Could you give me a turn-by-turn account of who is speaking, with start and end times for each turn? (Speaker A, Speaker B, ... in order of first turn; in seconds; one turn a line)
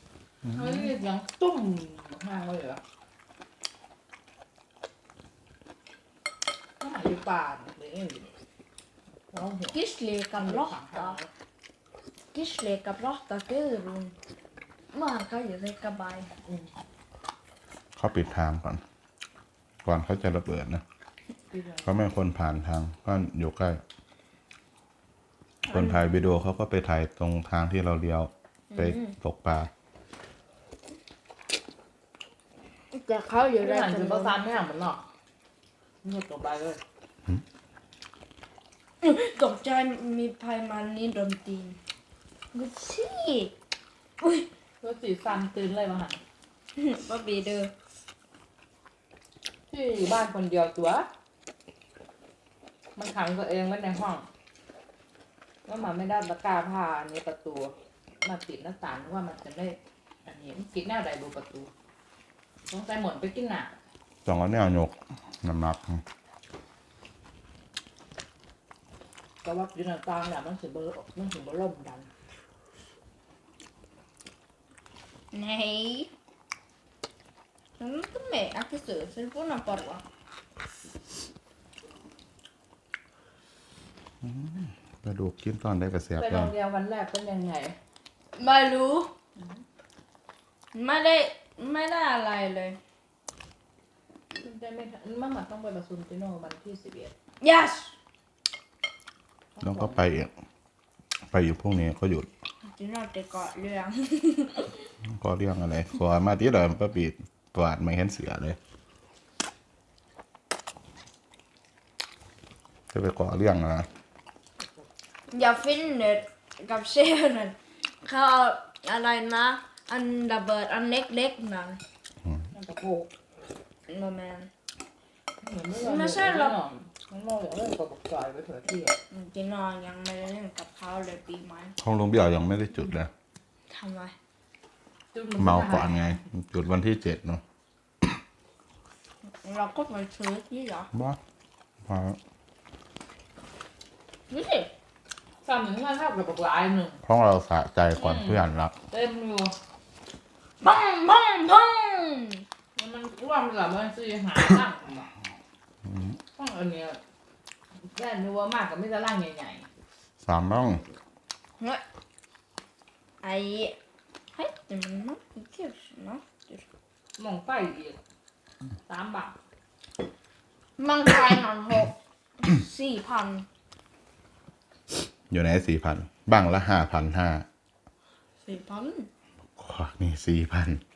Speaker A: 0.5-0.8
Speaker B: 0.5-2.8
Speaker B: 6.8-8.3
Speaker B: 9.3-9.8
Speaker C: 9.7-11.2
Speaker B: 10.4-11.3
Speaker C: 12.3-14.1
Speaker C: 14.9-16.3
Speaker B: 16.4-16.7
Speaker A: 17.9-18.8
Speaker A: 19.8-20.8
Speaker B: 21.5-21.9
Speaker A: 21.8-23.8
Speaker C: 25.6-26.1
Speaker A: 25.7-29.7
Speaker C: 28.7-29.1
Speaker C: 32.9-34.3
Speaker B: 33.6-35.0
Speaker B: 36.0-36.8
Speaker C: 39.0-41.8
Speaker C: 42.5-43.5
Speaker C: 44.2-44.5
Speaker B: 44.8-46.2
Speaker C: 46.8-47.7
Speaker B: 49.7-51.1
Speaker B: 53.0-54.3
Speaker B: 55.6-61.7
Speaker B: 62.7-63.8
Speaker A: 64.2-66.0
Speaker B: 69.4-72.1
Speaker C: 75.3-76.1
Speaker C: 77.8-80.0
Speaker A: 84.2-86.5
Speaker B: 86.2-87.8
Speaker C: 88.3-89.1
Speaker B: 89.3-89.6
Speaker C: 90.7-92.8
Speaker B: 94.3-97.1
Speaker C: 97.4-97.9
Speaker B: 99.5-100.0
Speaker A: 99.6-100.3
Speaker A: 101.3-102.3
Speaker C: 102.6-104.9
Speaker A: 105.0-108.6
Speaker A: 112.9-113.9
Speaker C: 115.3-121.8
Speaker B: 122.5-123.1
Speaker C: 123.9-124.5
Speaker B: 125.4-129.0
Speaker C: 125.8-126.6
Speaker C: 129.1-131.8
Speaker A: 131.8-133.1
Speaker C: 133.7-134.1
Speaker B: 135.1-136.0
Speaker A: 135.4-137.4
Speaker C: 139.2-140.9
Speaker A: 140.9-141.2
Speaker A: 141.8-142.2
Speaker C: 144.3-144.7
Speaker B: 145.4-147.0
Speaker A: 147.0-148.8
Speaker B: 148.0-149.6
Speaker C: 150.6-152.4
Speaker B: 152.8-155.1
Speaker A: 155.8-156.2
Speaker B: 156.3-157.0
Speaker B: 157.9-159.7
Speaker A: 160.2-160.8
Speaker C: 163.2-163.8
Speaker C: 164.3-166.6
Speaker B: 167.2-168.0
Speaker B: 168.9-169.3
Speaker C: 170.8-173.5
Speaker A: 175.3-177.4
Speaker C: 178.4-179.1
Speaker A: 179.6-180.8